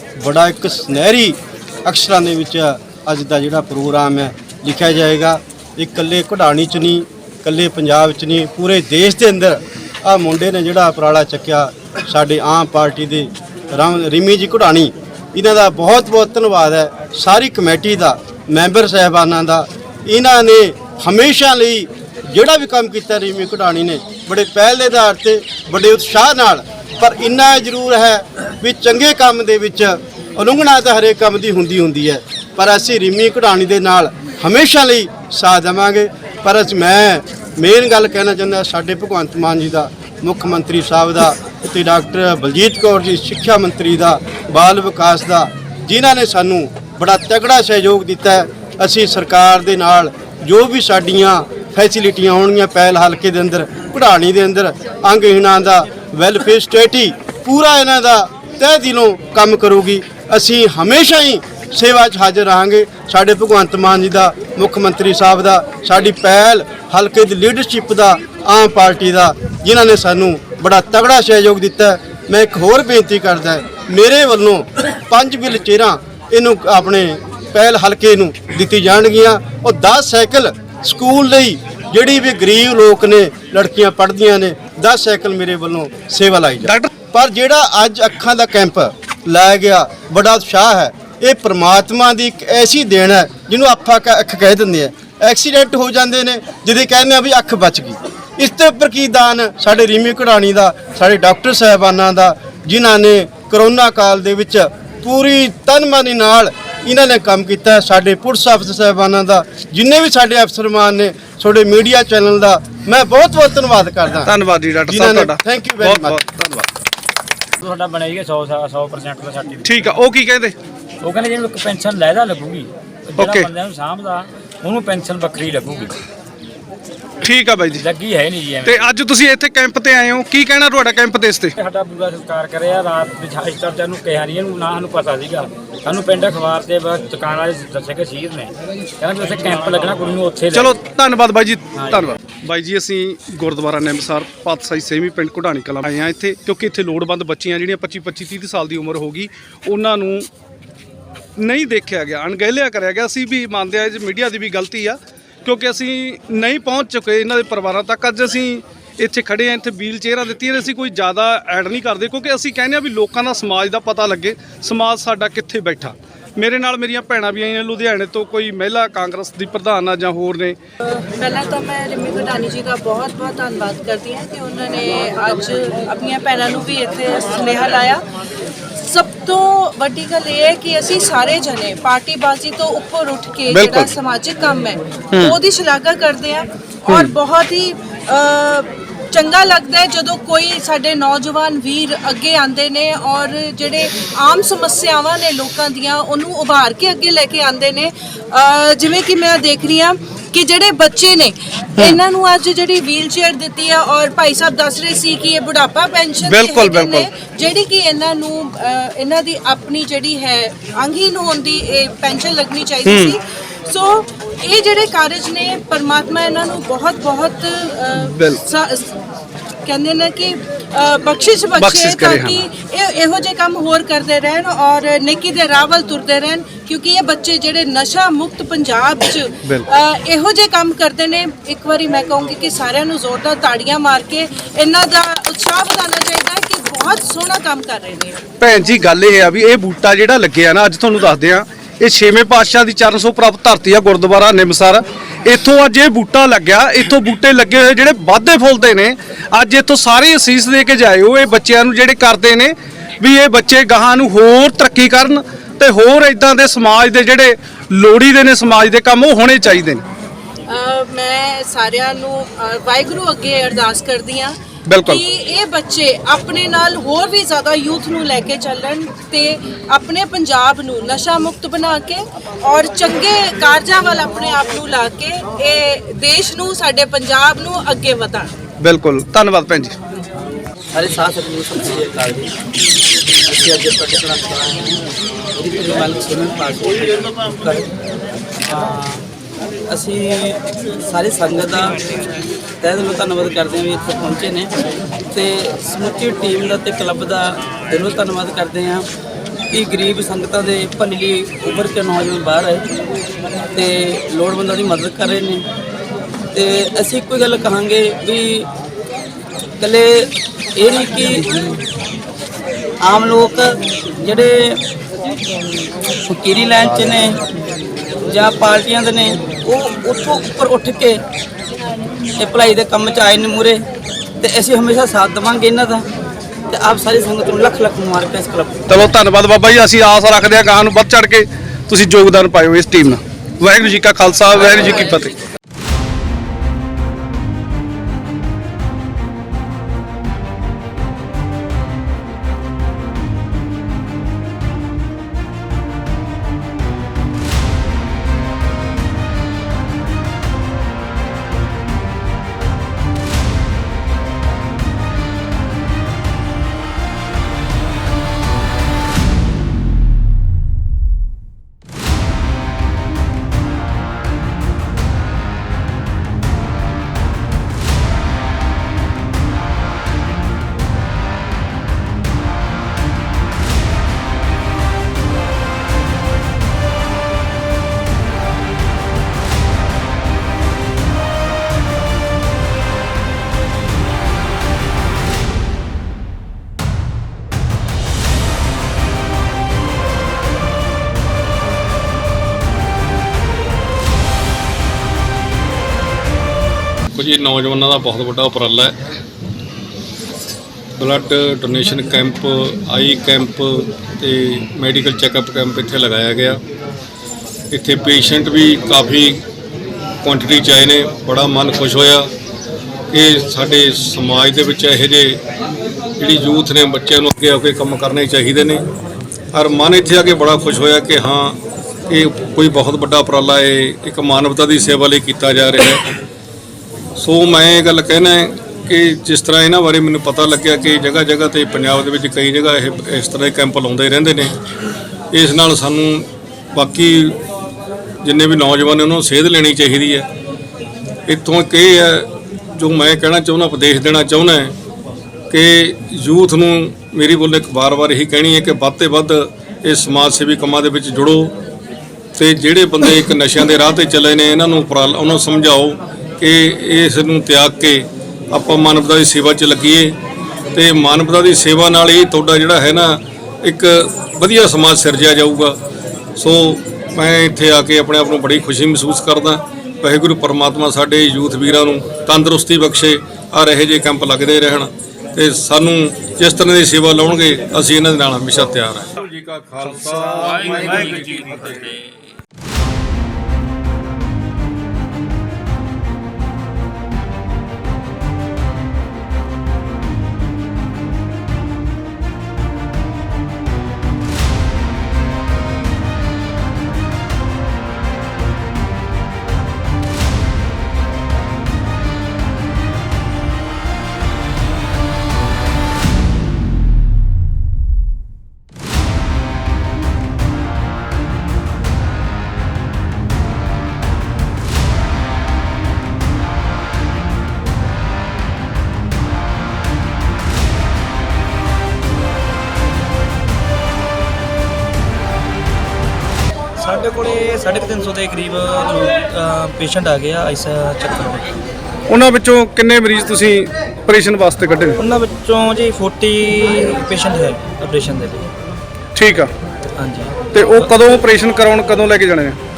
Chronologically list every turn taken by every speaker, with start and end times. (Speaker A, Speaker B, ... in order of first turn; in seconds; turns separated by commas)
Speaker A: 0.2-114.3, Speaker B: 86.6-86.9, Speaker B: 114.2-116.4, Speaker A: 114.9-116.6, Speaker C: 117.6-119.8, Speaker B: 119.6-120.5, Speaker C: 121.0-126.0, Speaker B: 123.2-123.5, Speaker B: 127.2-127.8, Speaker C: 127.8-128.8, Speaker B: 128.6-131.5, Speaker C: 131.6-140.8, Speaker B: 140.5-150.3, Speaker C: 141.7-142.0, Speaker B: 151.4-170.6, Speaker D: 171.0-178.0, Speaker D: 178.8-218.9, Speaker B: 183.5-183.9, Speaker B: 185.1-185.4, Speaker B: 186.9-187.1, Speaker B: 206.2-207.1, Speaker B: 212.8-213.1, Speaker B: 218.1-218.4, Speaker D: 219.7-238.2, Speaker B: 221.6-222.4, Speaker B: 238.4-259.8, Speaker D: 260.5-278.3, Speaker B: 264.6-265.0, Speaker B: 278.6-279.8, Speaker E: 280.7-282.3, Speaker E: 283.2-284.8, Speaker E: 285.4-287.7, Speaker E: 288.5-289.0, Speaker E: 289.7-291.8, Speaker E: 292.6-294.5, Speaker E: 295.1-298.9, Speaker E: 299.5-302.6, Speaker E: 303.5-305.4, Speaker E: 306.3-308.5, Speaker E: 309.6-311.5, Speaker E: 312.8-314.6, Speaker E: 316.0-317.2, Speaker E: 318.1-321.0, Speaker E: 322.2-323.6, Speaker E: 324.2-325.9, Speaker E: 326.5-328.6, Speaker B: 328.7-335.1, Speaker F: 396.9-398.7, Speaker F: 400.8-406.4, Speaker F: 407.5-409.2, Speaker F: 410.0-412.1, Speaker F: 412.9-415.2, Speaker F: 416.0-418.6, Speaker F: 419.3-425.8, Speaker F: 427.0-434.4, Speaker F: 435.1-437.2, Speaker F: 438.0-440.1, Speaker F: 441.1-444.6, Speaker F: 445.3-451.4, Speaker F: 452.1-459.9, Speaker F: 460.5-465.6, Speaker F: 466.2-481.7, Speaker B: 480.2-481.0, Speaker G: 526.6-531.3, Speaker B: 531.9-534.8, Speaker G: 534.8-538.3, Speaker B: 539.0-539.3, Speaker G: 539.8-540.7, Speaker B: 540.3-542.4